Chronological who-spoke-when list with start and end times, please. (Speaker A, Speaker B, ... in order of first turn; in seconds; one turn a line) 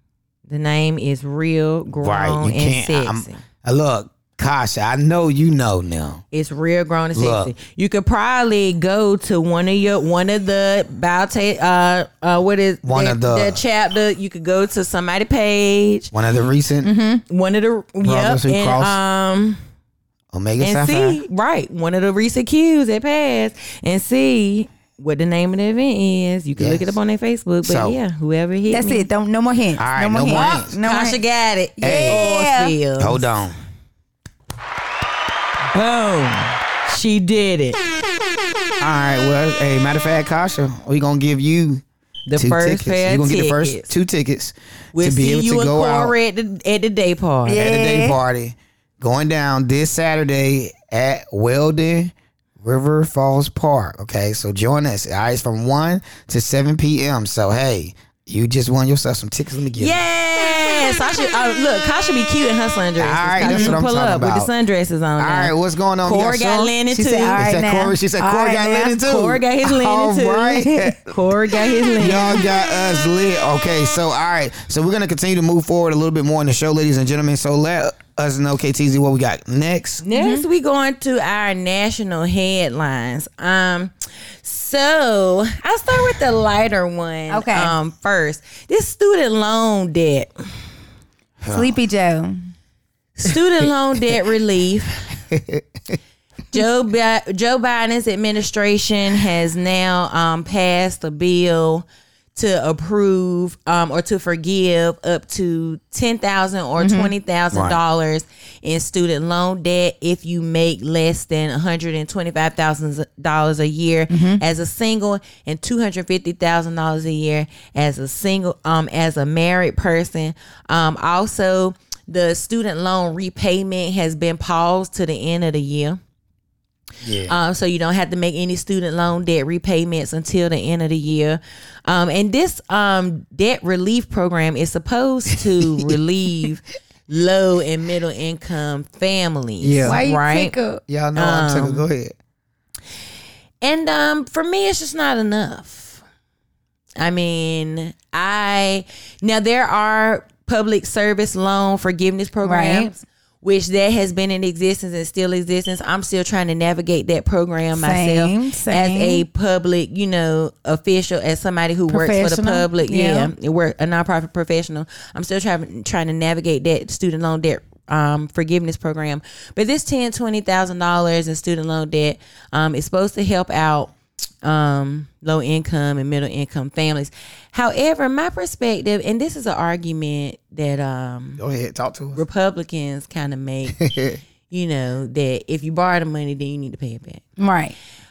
Speaker A: 0.5-3.4
Speaker B: 2.0-6.2
Speaker A: 6.3-16.1
Speaker B: 7.1-7.5
Speaker B: 12.8-13.6
Speaker B: 16.1-16.9
Speaker C: 16.8-17.2
Speaker A: 17.3-19.6
Speaker B: 18.0-19.0
Speaker B: 20.3-21.2
Speaker A: 20.6-29.1
Speaker B: 26.6-26.9
Speaker B: 27.6-28.0
Speaker C: 28.7-31.2
Speaker B: 29.8-30.8
Speaker A: 30.3-33.2
Speaker C: 31.8-32.7
Speaker B: 31.8-32.3
Speaker B: 33.0-33.5
Speaker A: 35.7-37.8
Speaker B: 38.8-41.8
Speaker A: 42.3-43.9
Speaker B: 42.4-46.1
Speaker A: 44.9-47.6
Speaker C: 47.5-48.2
Speaker B: 47.5-60.0
Speaker A: 59.8-67.4
Speaker B: 63.0-64.5
Speaker C: 63.4-63.7
Speaker B: 65.2-66.8
Speaker C: 66.9-69.0
Speaker B: 67.3-71.1
Speaker A: 68.9-72.4
Speaker B: 72.0-80.0
Speaker A: 80.0-90.3
Speaker C: 80.1-80.4
Speaker C: 87.3-87.8
Speaker B: 91.4-91.8
Speaker C: 91.5-92.4
Speaker A: 93.2-95.0
Speaker B: 95.3-95.6
Speaker A: 96.5-126.0
Speaker C: 106.8-107.1
Speaker B: 107.5-107.8
Speaker C: 114.1-114.4
Speaker B: 127.0-127.3
Speaker A: 127.2-140.5
Speaker B: 139.6-140.0
Speaker C: 139.8-140.8
Speaker B: 140.9-142.1
Speaker A: 141.1-141.8
Speaker A: 143.6-146.0
Speaker A: 147.0-173.9
Speaker C: 152.4-152.9
Speaker C: 157.7-159.2
Speaker C: 161.9-163.3
Speaker A: 174.4-181.4
Speaker B: 181.4-182.2
Speaker A: 182.1-183.8
Speaker B: 183.8-184.2
Speaker A: 184.5-187.2
Speaker C: 187.4-187.7